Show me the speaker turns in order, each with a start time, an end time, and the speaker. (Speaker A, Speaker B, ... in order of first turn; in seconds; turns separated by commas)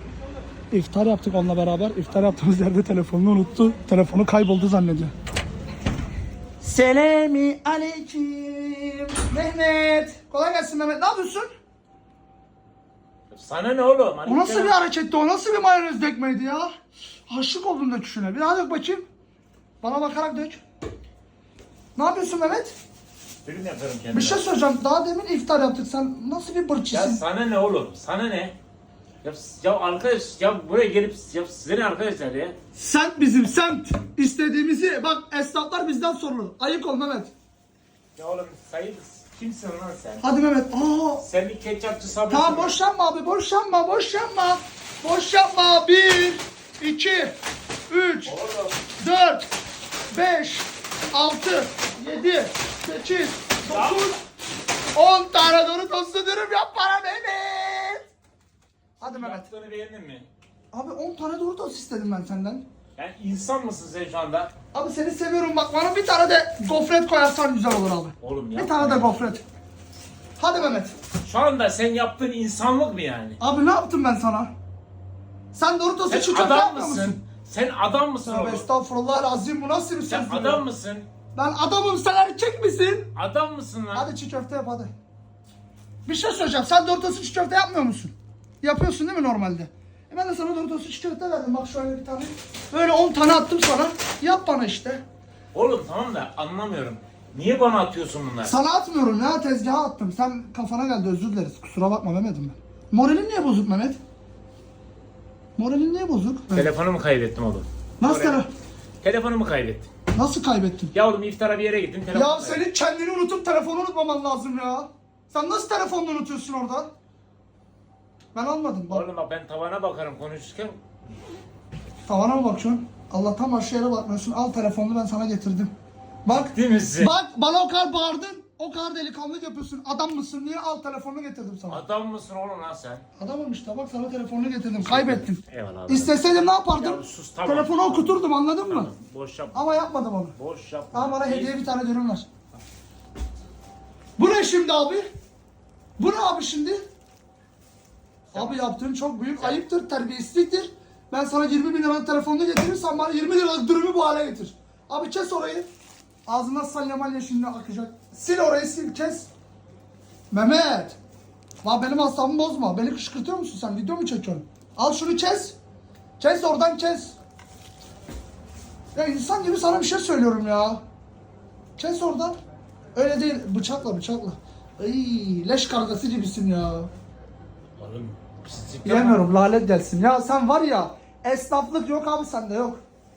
Speaker A: 0.7-5.1, Speaker A: 6.6-11.5, Speaker B: 13.3-14.7, Speaker A: 14.2-16.7, Speaker A: 17.3-19.0, Speaker A: 19.8-20.6, Speaker A: 21.9-22.7, Speaker B: 23.4-24.4, Speaker A: 24.1-27.2, Speaker B: 26.9-28.6, Speaker B: 29.2-32.5, Speaker A: 32.7-37.3, Speaker B: 38.1-40.2, Speaker A: 40.2-41.2, Speaker B: 41.2-42.7, Speaker A: 42.3-47.4, Speaker A: 47.9-48.4, Speaker B: 48.2-48.8, Speaker A: 49.0-49.5, Speaker A: 50.1-54.2, Speaker B: 53.7-54.1, Speaker A: 54.9-58.0, Speaker A: 59.0-59.5, Speaker B: 59.0-60.3, Speaker A: 60.7-62.6, Speaker B: 63.0-64.5, Speaker A: 64.7-69.4, Speaker B: 68.2-69.4, Speaker A: 70.4-70.9, Speaker B: 71.2-73.4, Speaker A: 73.4-74.5, Speaker A: 75.5-77.2, Speaker B: 76.1-78.7, Speaker A: 78.2-80.6, Speaker B: 80.0-81.1, Speaker A: 81.3-83.1, Speaker B: 83.1-84.1, Speaker A: 83.9-84.9, Speaker A: 86.0-95.0, Speaker B: 95.5-98.5, Speaker A: 98.5-104.0, Speaker A: 105.6-106.7, Speaker B: 106.5-108.4, Speaker A: 108.0-108.5, Speaker B: 109.0-109.9, Speaker A: 110.1-110.9, Speaker B: 110.9-112.6, Speaker A: 112.1-116.9, Speaker A: 118.3-119.0, Speaker B: 118.9-120.8, Speaker A: 122.0-125.7, Speaker A: 126.2-131.8, Speaker B: 126.3-127.1, Speaker B: 131.7-133.0, Speaker A: 133.2-138.9, Speaker B: 134.8-139.8, Speaker A: 139.5-140.3, Speaker B: 140.3-141.6, Speaker A: 140.9-142.3, Speaker A: 144.2-145.1, Speaker A: 146.0-146.8, Speaker A: 148.3-155.7, Speaker B: 148.3-148.6, Speaker B: 149.4-149.6, Speaker A: 156.2-159.3, Speaker A: 160.3-161.0, Speaker A: 161.6-165.6, Speaker A: 166.2-167.2, Speaker A: 168.9-170.8, Speaker A: 171.8-172.3, Speaker A: 172.9-176.9, Speaker B: 177.8-179.3, Speaker A: 178.8-182.8